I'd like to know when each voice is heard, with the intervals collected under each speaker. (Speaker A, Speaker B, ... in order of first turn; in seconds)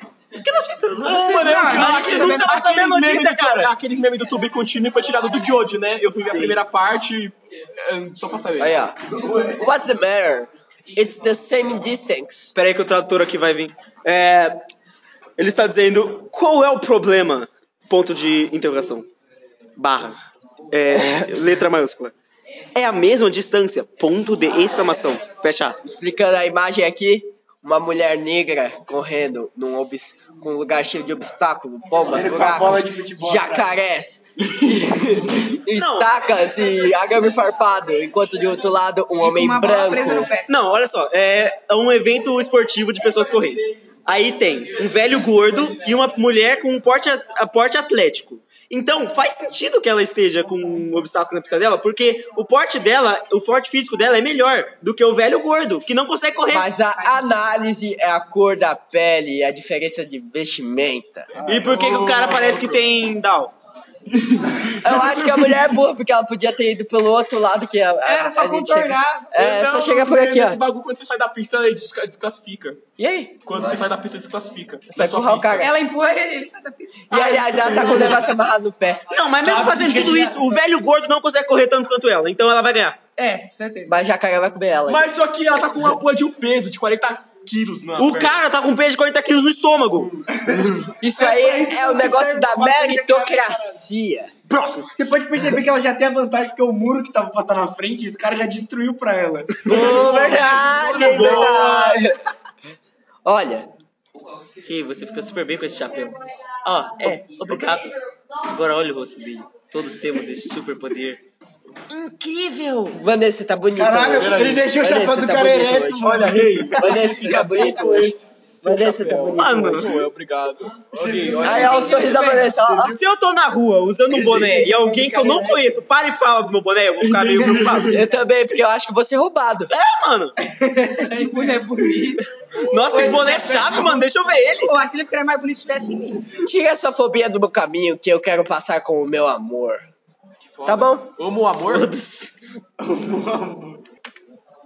Speaker A: 0.4-3.7, 6.2-6.6, 12.6-14.6, 15.4-19.2, 19.8-20.2, 20.7-22.1, 22.8-26.0, 35.7-36.1, 40.5-56.7, 61.5-63.5, 79.1-83.0, 88.0-90.1, 94.5-94.9, 100.9-101.9, 104.7-107.9, 108.5-111.2, 111.9-113.0, 119.4-119.9, 122.8-128.0, 129.7-130.3, 132.7-134.7, 141.7-142.3
Speaker B: 1.0-8.7, 61.4-62.8, 64.5-65.4, 69.3-72.8, 73.5-75.7, 84.9-88.4, 99.7-102.0, 114.2-114.8, 116.0-123.0, 124.3-124.7, 127.0-128.1, 140.5-141.9
Speaker C: 1.1-2.6, 39.2-40.5, 57.0-57.4, 68.0-69.3, 75.6-78.0, 83.2-83.9, 121.5-122.5, 130.5-136.2
Speaker D: 8.6-12.5, 26.0-40.3, 56.5-61.3, 64.8-70.6, 73.0-73.5, 74.9-75.7, 77.1-79.1, 83.9-85.1, 91.0-94.3, 99.7-102.2, 103.2-103.7, 112.9-119.9, 121.4-123.0, 127.8-129.7, 136.4-139.8, 140.7-141.1
Speaker E: 32.1-33.7, 79.4-80.6, 90.3-93.8, 94.9-101.2, 113.7-118.2, 120.9-121.7, 124.4-125.6, 142.8-143.8